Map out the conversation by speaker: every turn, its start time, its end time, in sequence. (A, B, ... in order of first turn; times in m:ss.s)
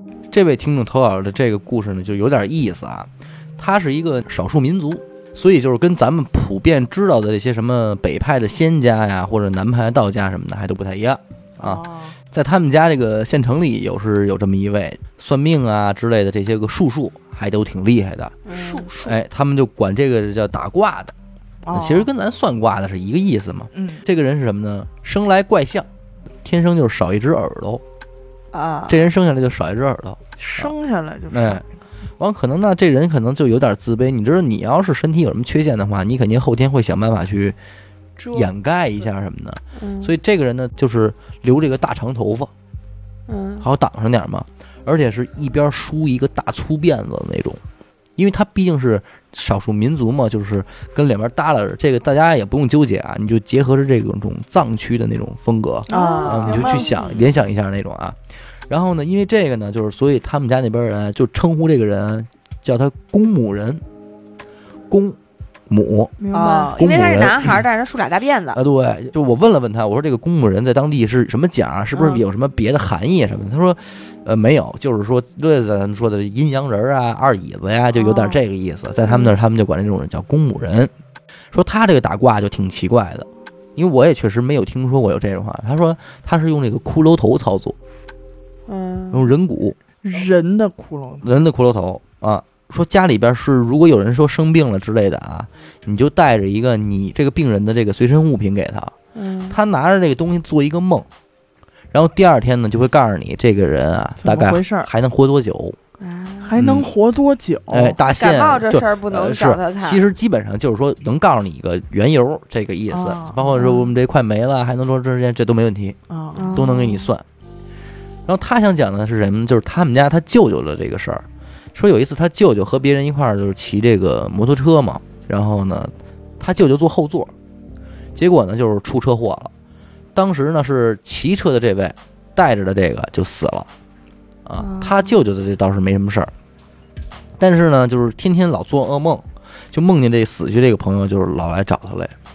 0:00.3-0:18.3 A
0:11.6-0:12.2 B
0:18.5-0:18.9 C
0:18.5-0:19.2 B
0:19.0-0:21.1 A
0:21.6-0:22.1 B
0:21.7-0:25.9 A
0:23.7-0:24.0 B
0:26.4-0:27.8 A
0:28.5-0:29.1 C
0:28.9-0:30.7 A
0:30.4-0:31.7 B
0:31.3-0:31.6 A
0:32.2-0:37.6 A
0:38.2-0:38.5 B
0:38.3-0:42.5 A
0:39.8-0:40.1 C
0:43.3-0:43.7 C
0:43.6-0:47.6 A
0:48.2-0:58.2 A
0:55.9-0:57.1 B
0:55.9-0:57.2 C
0:58.7-1:03.8 A
1:04.9-1:05.2 A
1:05.7-1:06.2 A
1:06.2-1:06.8 B
1:06.3-1:08.6 C
1:06.8-1:07.6 A
1:08.5-1:20.9 A
1:12.0-1:12.2 B
1:18.0-1:18.4 B
1:19.0-1:19.4 C
1:21.5-1:27.8 A
1:28.7-1:29.2 C
1:29.1-1:29.8 A
1:30.0-1:31.3 B
1:31.2-1:38.9 A
1:39.2-1:39.6 C
1:39.5-1:41.1 A
1:41.9-1:45.8 A
1:44.2-1:44.9 B
1:46.0-1:48.0 B
1:46.6-1:46.9 A
1:47.7-1:56.0 A
1:48.2-1:50.0 C
1:52.9-1:53.5 B
1:53.6-1:53.9 C
1:56.1-1:56.6 B
1:56.4-1:57.1 C
1:56.5-1:57.2 A
1:58.3-2:07.3 A
2:08.2-2:09.5 A
2:10.2-2:13.7 A
2:14.5-2:16.3 A
2:14.6-2:15.2 C
2:17.4-2:22.1 A